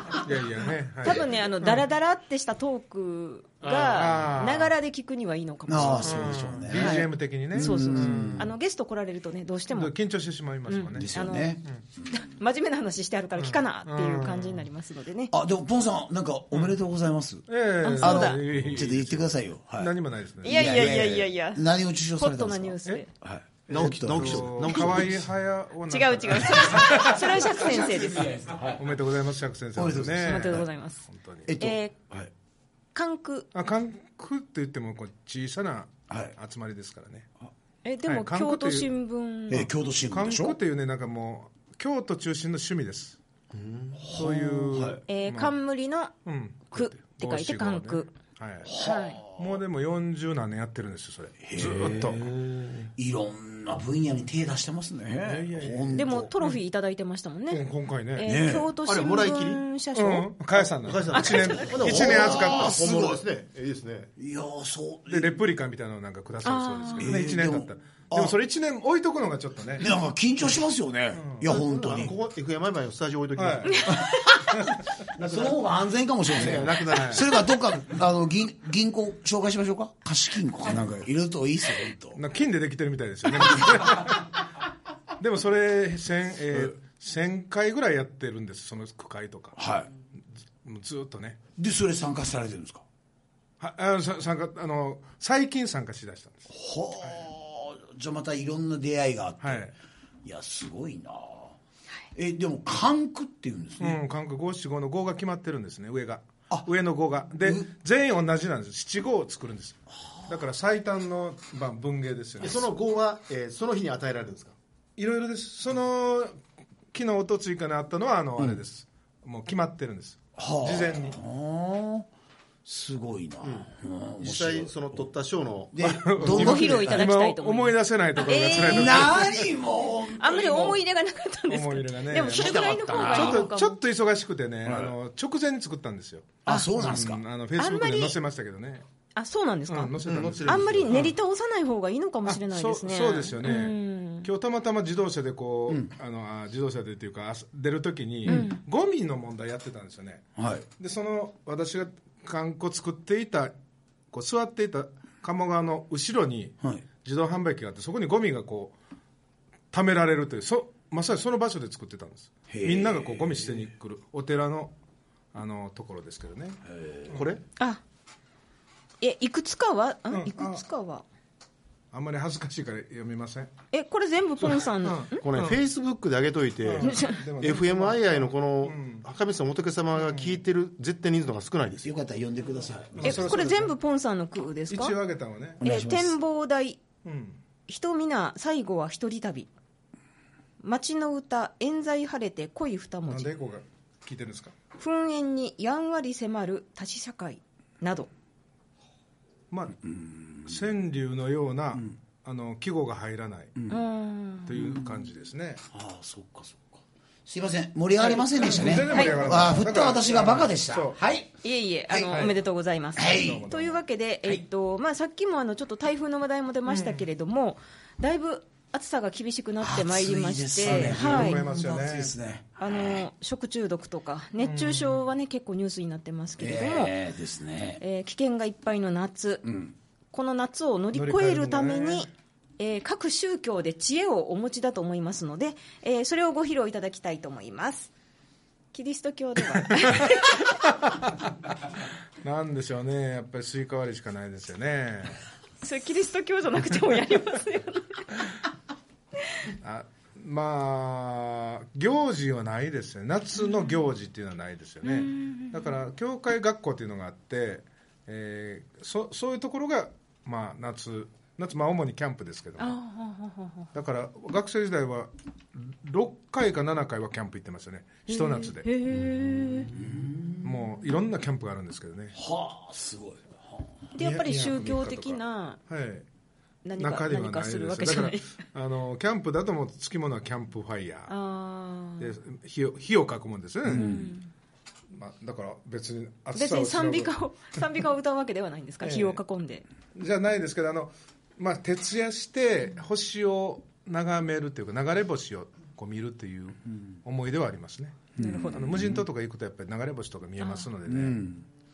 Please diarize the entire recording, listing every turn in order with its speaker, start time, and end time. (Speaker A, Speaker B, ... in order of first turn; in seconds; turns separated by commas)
Speaker A: 0.1-1.8, Speaker B: 1.0-9.9, Speaker A: 3.7-4.7, Speaker C: 5.7-8.5, Speaker A: 6.0-8.4, Speaker A: 9.7-11.1, Speaker B: 10.7-11.6, Speaker C: 10.9-12.2, Speaker B: 12.1-15.3, Speaker A: 13.4-14.7, Speaker C: 15.3-17.5, Speaker A: 17.5-20.8, Speaker B: 17.8-18.4, Speaker C: 18.0-25.1, Speaker B: 20.4-21.6, Speaker B: 22.2-23.1, Speaker D: 23.7-25.3, Speaker A: 23.8-27.6, Speaker B: 25.9-28.3, Speaker C: 26.9-28.9, Speaker A: 28.2-31.5, Speaker C: 29.8-30.7, Speaker B: 30.2-31.1, Speaker C: 31.5-32.3, Speaker B: 31.6-32.0, Speaker B: 32.9-33.5, Speaker A: 33.5-37.3, Speaker C: 36.1-36.3, Speaker B: 37.8-39.7, Speaker A: 38.1-38.9, Speaker C: 39.5-40.6, Speaker A: 40.1-43.2, Speaker D: 43.5-44.0, Speaker C: 44.0-45.0, Speaker A: 44.1-45.5, Speaker B: 45.1-46.2, Speaker A: 46.2-48.7, Speaker B: 46.7-48.2, Speaker C: 48.6-49.6, Speaker B: 48.8-49.2, Speaker A: 49.4-52.9, Speaker C: 51.4-52.3, Speaker C: 53.0-56.3, Speaker A: 55.2-56.6, Speaker B: 56.0-60.3, Speaker A: 57.5-58.3, Speaker C: 58.2-58.7, Speaker D: 58.8-59.6, Speaker A: 60.0-62.8, Speaker D: 60.8-64.1, Speaker B: 61.1-61.8, Speaker C: 61.7-63.2, Speaker C: 64.2-65.4, Speaker A: 65.1-69.9, Speaker B: 66.4-67.1, Speaker C: 67.0-68.4, Speaker C: 69.8-72.2, Speaker A: 71.2-71.5, Speaker D: 71.5-73.9, Speaker A: 73.4-73.9, Speaker B: 73.7-74.0, Speaker C: 73.9-74.5, Speaker C: 75.1-82.2, Speaker D: 75.2-75.5, Speaker D: 76.3-77.4, Speaker A: 76.9-77.2, Speaker A: 82.2-84.3, Speaker A: 85.2-89.6, Speaker C: 89.6-89.9, Speaker A: 90.6-91.4, Speaker C: 91.6-92.8, Speaker A: 93.6-96.5, Speaker C: 96.5-99.7, Speaker A: 99.4-99.7, Speaker C: 100.2-101.6, Speaker C: 102.1-104.0, Speaker A: 103.8-112.7, Speaker C: 107.4-107.7, Speaker D: 112.4-114.5, Speaker A: 115.0-116.4, Speaker A: 116.9-121.2, Speaker C: 120.4-122.1, Speaker C: 122.7-125.1, Speaker D: 123.4-125.8, Speaker C: 125.7-127.1, Speaker A: 125.8-129.5, Speaker B: 126.3-129.4, Speaker C: 128.6-130.8, Speaker B: 130.1-133.8, Speaker A: 131.5-138.8, Speaker C: 132.3-133.5, Speaker C: 134.7-134.9, Speaker C: 136.4-137.2, Speaker B: 136.5-136.7, Speaker B: 137.6-138.2, Speaker B: 139.2-144.3, Speaker A: 139.7-141.1, Speaker D: 140.0-141.1, Speaker A: 142.3-153.5, Speaker B: 148.3-148.6, Speaker C: 150.4-150.7, Speaker A: 154.1-158.8, Speaker A: 159.7-164.7, Speaker C: 162.5-163.7, Speaker A: 165.3-167.2, Speaker C: 166.7-167.2, Speaker D: 167.1-167.4, Speaker B: 169.0-171.0, Speaker A: 170.1-170.6, Speaker A: 171.9-173.5, Speaker B: 173.7-175.3, Speaker A: 174.4-175.6, Speaker D: 175.2-182.0, Speaker A: 176.6-179.1, Speaker B: 176.8-177.2, Speaker A: 179.9-180.4, Speaker C: 181.8-183.3, Speaker A: 182.9-183.7, Speaker B: 183.0-185.0, Speaker A: 184.7-185.6, Speaker C: 185.6-186.2, Speaker B: 185.6-186.8, Speaker A: 187.0-187.4, Speaker B: 187.7-189.5, Speaker B: 190.6-193.3, Speaker A: 193.1-194.6, Speaker B: 194.8-198.1, Speaker A: 199.5-199.8, Speaker C: 199.8-200.6, Speaker A: 200.5-203.5, Speaker B: 203.7-204.6, Speaker A: 204.5-205.6, Speaker C: 204.5-205.1, Speaker C: 205.7-211.3, Speaker A: 208.0-211.0, Speaker B: 208.8-209.4, Speaker B: 211.4-221.4, Speaker C: 211.9-212.2, Speaker A: 212.1-212.4, Speaker C: 212.9-213.5, Speaker A: 213.0-213.8, Speaker A: 216.7-217.0, Speaker C: 219.6-223.1, Speaker A: 220.6-222.1, Speaker B: 222.6-226.9, Speaker A: 224.4-225.0, Speaker C: 226.4-227.8, Speaker B: 227.8-229.4, Speaker C: 229.4-229.7, Speaker B: 230.1-237.9, Speaker A: 230.9-232.1, Speaker B: 238.7-240.6, Speaker A: 239.8-240.2, Speaker A: 242.2-245.2, Speaker B: 245.6-248.2, Speaker A: 249.6-262.8, Speaker B: 253.3-253.8, Speaker B: 254.8-255.8, Speaker B: 262.6-263.7, Speaker A: 263.7-268.7, Speaker B: 268.1-269.7, Speaker A: 269.5-272.2, Speaker C: 269.7-270.8, Speaker C: 272.1-273.8, Speaker B: 273.9-275.6, Speaker A: 274.0-276.1, Speaker B: 276.6-278.4, Speaker A: 276.8-281.1, Speaker B: 281.1-282.1, Speaker A: 282.0-284.0, Speaker C: 283.7-284.2, Speaker B: 283.7-284.3, Speaker A: 284.9-287.1, Speaker B: 286.4-289.6, Speaker A: 288.8-289.2, Speaker A: 289.9-301.3, Speaker C: 298.2-299.0, Speaker B: 298.2-298.8, Speaker B: 300.4-300.7, Speaker C: 300.9-301.4